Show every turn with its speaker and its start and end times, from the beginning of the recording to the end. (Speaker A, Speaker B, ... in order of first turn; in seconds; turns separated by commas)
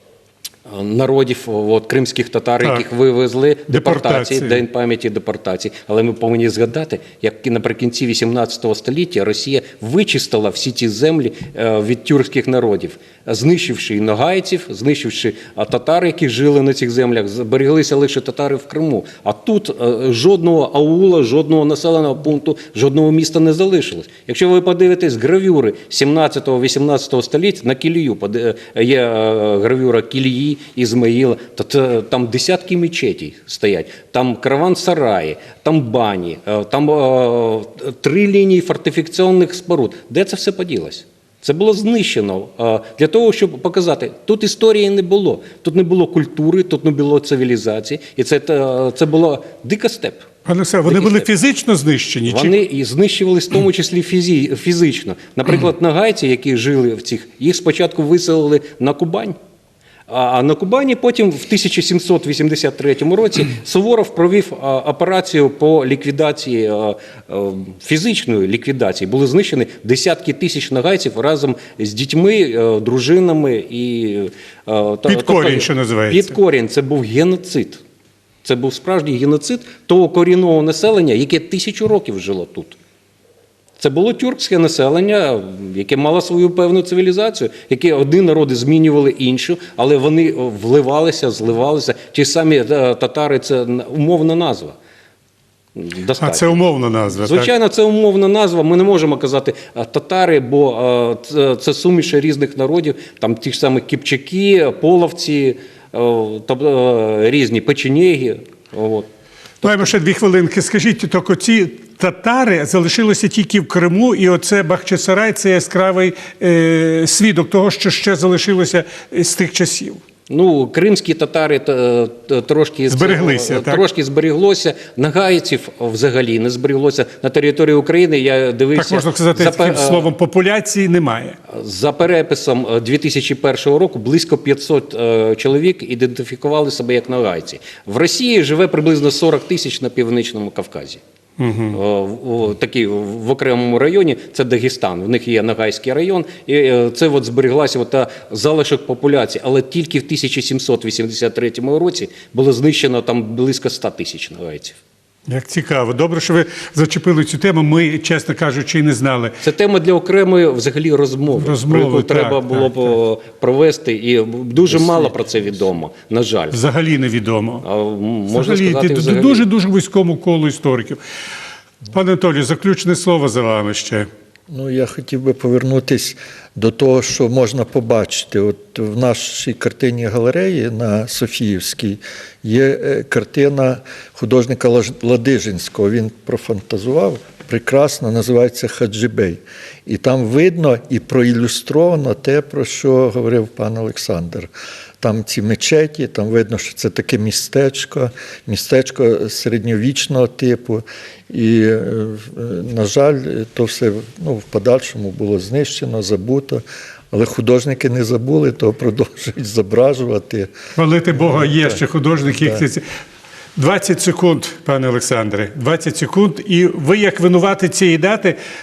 Speaker A: 0.7-50.3, Speaker B: 3.7-4.6, Speaker B: 50.4-52.5, Speaker A: 50.9-51.3, Speaker A: 52.3-59.4, Speaker A: 60.1-77.8, Speaker B: 75.1-76.3, Speaker A: 78.4-82.8, Speaker A: 83.8-94.8, Speaker A: 95.8-96.6, Speaker B: 96.2-97.5, Speaker A: 97.1-109.1, Speaker A: 109.6-109.9, Speaker B: 109.6-120.0, Speaker A: 120.3-130.1, Speaker B: 122.9-123.8, Speaker B: 128.8-131.4, Speaker A: 131.5-141.0, Speaker B: 141.4-141.8, Speaker A: 141.7-154.8, Speaker B: 155.3-159.4, Speaker A: 159.4-166.6, Speaker B: 161.4-162.9, Speaker B: 166.5-167.6, Speaker A: 167.6-169.4, Speaker B: 168.3-171.0, Speaker B: 171.9-174.1, Speaker C: 174.5-194.5, Speaker C: 195.0-210.5, Speaker B: 210.8-212.8, Speaker C: 211.1-212.6, Speaker B: 213.6-218.4